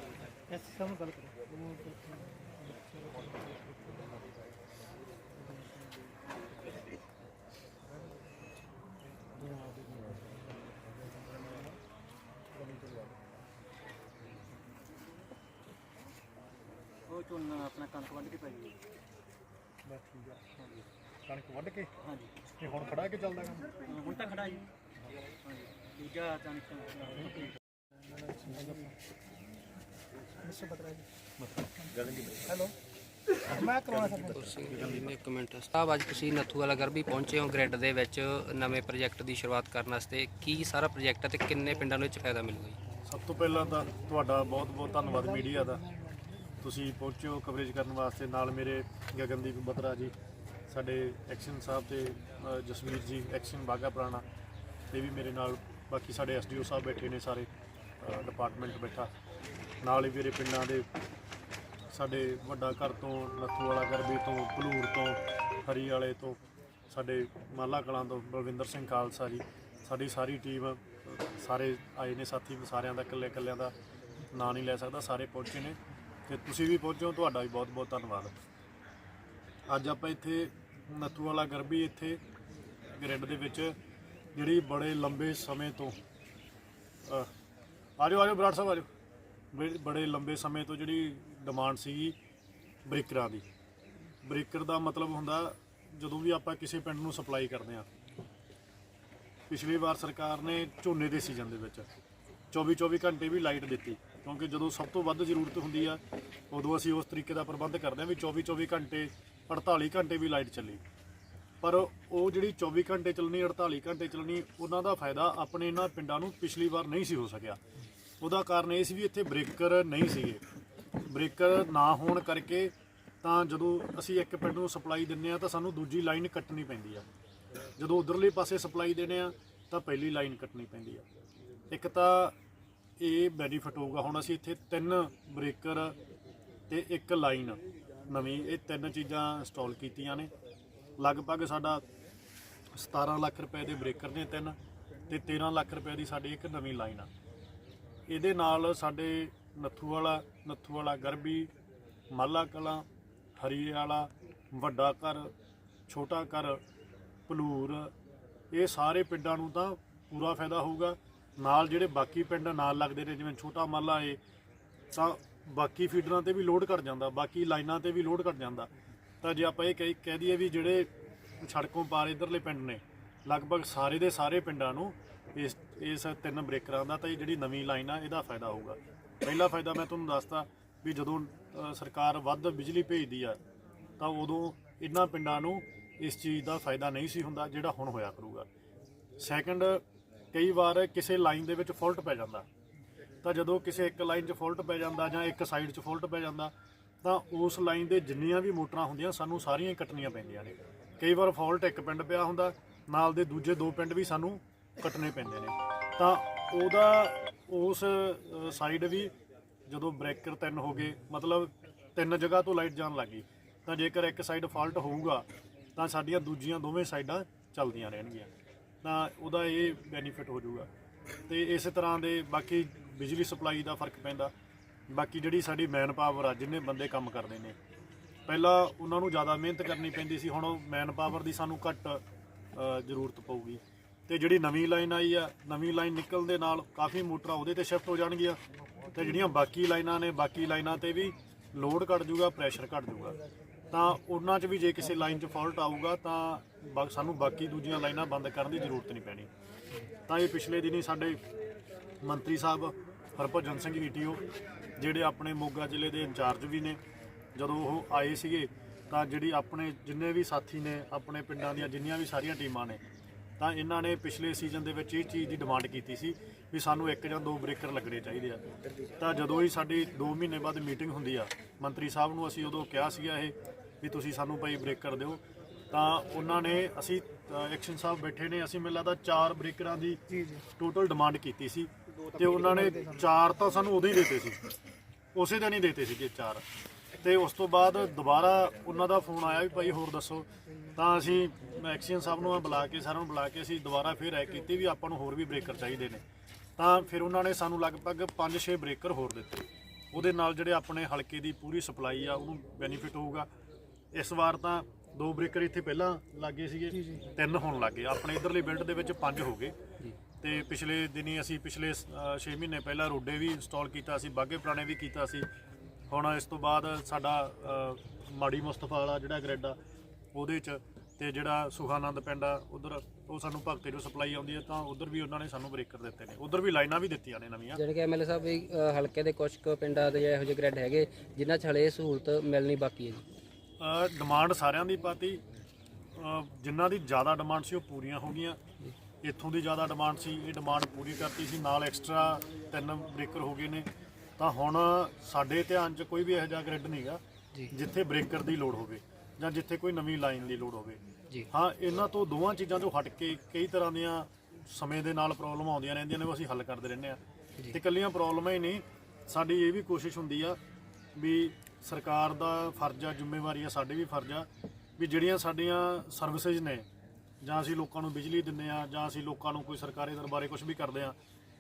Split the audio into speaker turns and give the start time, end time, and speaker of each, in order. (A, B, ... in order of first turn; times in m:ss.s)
0:00.5-0:03.8 A
0:09.5-0:10.1 A
0:17.1-0:18.8 B
0:19.9-0:20.4 C
0:20.6-0:20.8 B
0:21.3-0:21.9 C
0:22.0-0:22.3 B
0:22.6-0:23.7 C
0:23.9-0:24.7 B
0:25.4-0:27.5 B
0:28.4-0:28.9 A
0:30.4-0:31.1 A
0:32.4-0:32.7 A
0:33.6-0:34.3 A
0:34.0-0:42.8 D
0:43.1-0:45.8 C
0:46.6-0:50.1 C
0:50.7-0:54.2 C
0:54.9-0:57.5 C
0:58.0-0:59.1 C
0:59.8-1:00.8 C
1:01.9-1:06.4 C
1:06.9-1:13.7 C
1:14.3-1:15.8 C
1:16.3-1:18.3 C
1:19.7-1:22.2 C
1:23.0-1:23.7 C
1:24.4-1:26.0 C
1:28.0-1:28.9 C
1:29.5-1:32.2 C
1:32.9-1:33.4 C
1:34.2-1:37.9 C
1:39.5-1:41.8 C
1:42.5-1:46.0 C
1:46.5-1:50.8 C
1:51.6-1:57.6 C
1:58.2-2:00.4 C
2:01.1-2:02.7 C
2:03.2-2:07.0 C
2:07.8-2:11.0 C
2:11.7-2:12.3 C
2:13.0-2:16.0 C
2:16.7-2:20.3 C
2:21.0-2:21.8 C
2:22.7-2:24.6 C
2:25.1-2:27.1 C
2:28.1-2:31.5 C
2:32.1-2:32.8 C
2:33.4-2:35.3 C
2:35.9-2:36.6 C
2:37.3-2:37.9 C
2:38.5-2:44.2 C
2:44.9-2:48.7 C
2:49.2-2:50.9 C
2:51.4-3:03.4 C
3:04.0-3:08.5 C
3:09.2-3:12.5 C
3:13.2-3:29.1 C
3:29.7-3:38.3 C
3:38.8-3:40.7 C
3:41.3-3:44.3 C
3:44.9-3:47.6 C
3:48.3-3:52.0 C
3:52.6-3:58.4 C
3:58.9-4:03.2 C
4:03.7-4:09.3 C
4:10.1-4:11.2 C
4:12.0-4:14.2 C
4:14.8-4:16.8 C
4:17.4-4:22.8 C
4:23.4-4:28.4 C
4:29.0-4:35.2 C
4:35.7-4:40.0 C
4:40.1-4:40.4 A
4:40.6-4:44.4 C
4:45.2-4:46.4 C
4:47.0-4:56.0 C
4:56.6-5:03.3 C
5:03.9-5:09.6 C
5:10.2-5:15.3 C
5:15.9-5:19.6 C
5:20.1-5:27.6 C
5:27.6-5:33.0 D
5:33.6-5:35.2 C
5:36.0-5:38.4 C
5:39.0-5:43.7 C
5:44.2-5:50.8 C
5:51.3-5:57.0 C
5:57.5-6:00.4 C
6:01.0-6:04.3 C
6:04.8-6:06.6 C
6:07.2-6:11.0 C